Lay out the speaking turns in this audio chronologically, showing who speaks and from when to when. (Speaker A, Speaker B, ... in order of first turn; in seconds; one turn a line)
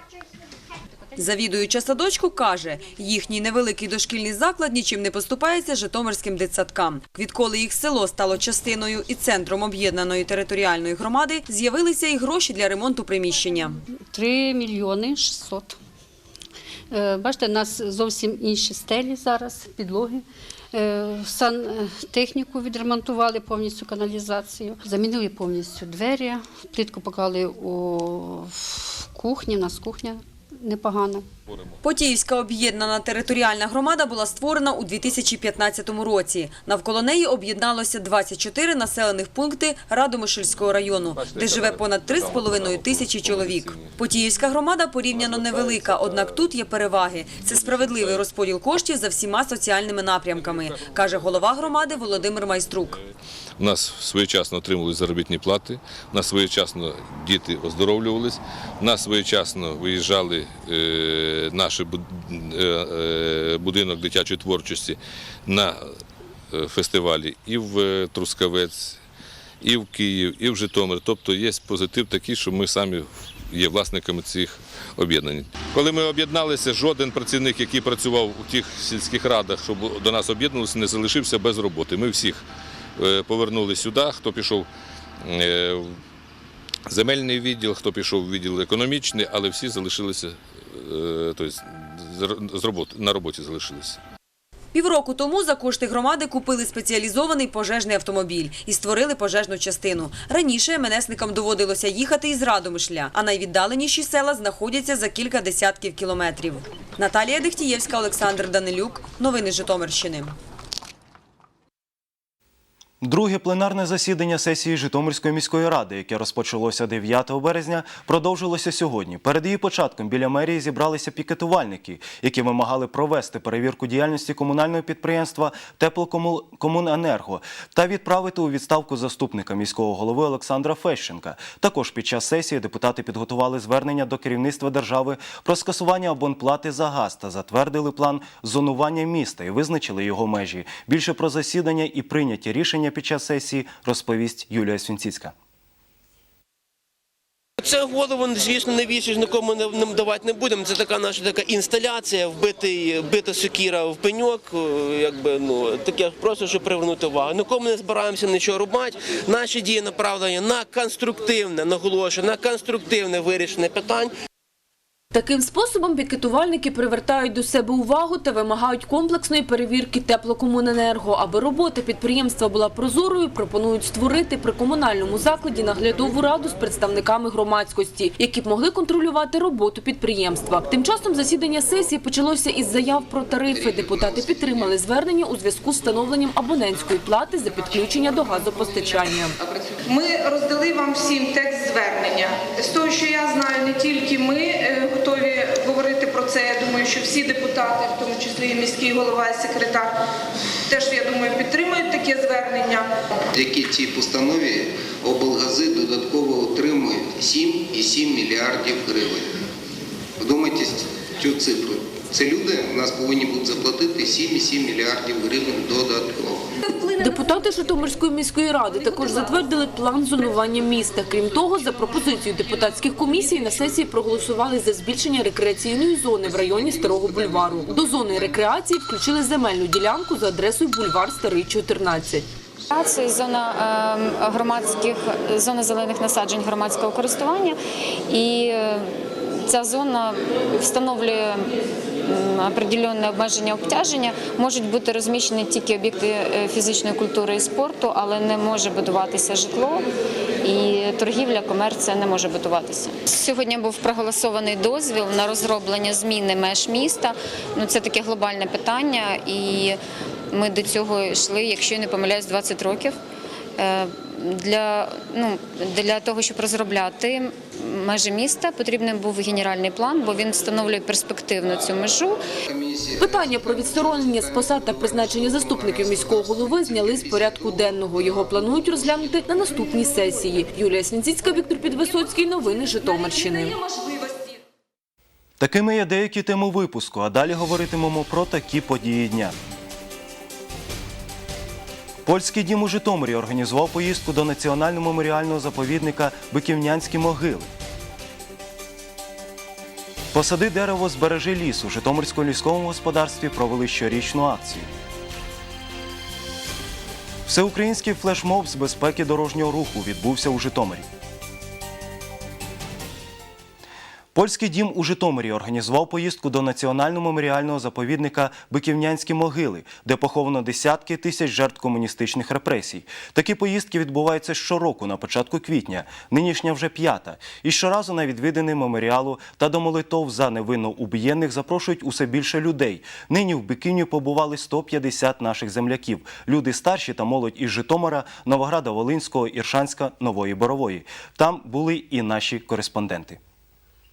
Speaker A: 1.1-13.8
Speaker B: 14.1-15.8
Speaker B: 16.9-31.2
Speaker C: 31.5-31.8
Speaker A: 31.8-53.0
Speaker C: 41.1-44.0
Speaker C: 45.1-46.4
Speaker C: 47.5-48.2
Speaker C: 50.4-51.5
Speaker C: 53.6-69.0
Speaker C: 69.6-82.5
Speaker C: 83.0-84.7
Speaker C: 85.2-86.0
Speaker C: 86.9-94.0
Speaker A: 94.7-110.3
Speaker D: 113.0-145.3
Speaker E: 147.6-164.1
Speaker F: 165.1-189.3
Speaker G: 183.5-184.7
Speaker H: 189.7-200.0
Speaker H: 200.7-202.9
Speaker G: 203.3-209.2
Speaker G: 210.2-216.5
Speaker H: 216.7-217.3
Speaker F: 217.0-232.2
Speaker G: 226.6-227.7
Speaker I: 232.7-238.9
Speaker I: 239.4-241.5
Speaker I: 242.1-249.8
Speaker I: 250.4-259.8
Speaker I: 260.3-262.9
Speaker I: 263.6-272.2
Speaker G: 271.4-271.8
Speaker G: 272.5-277.6
Speaker F: 273.0-283.6
Speaker H: 283.6-284.0
Speaker D: 285.4-289.4
Speaker D: 292.0-297.5
Speaker D: 300.1-304.7
Speaker D: 307.3-310.9
Speaker D: 314.1-343.2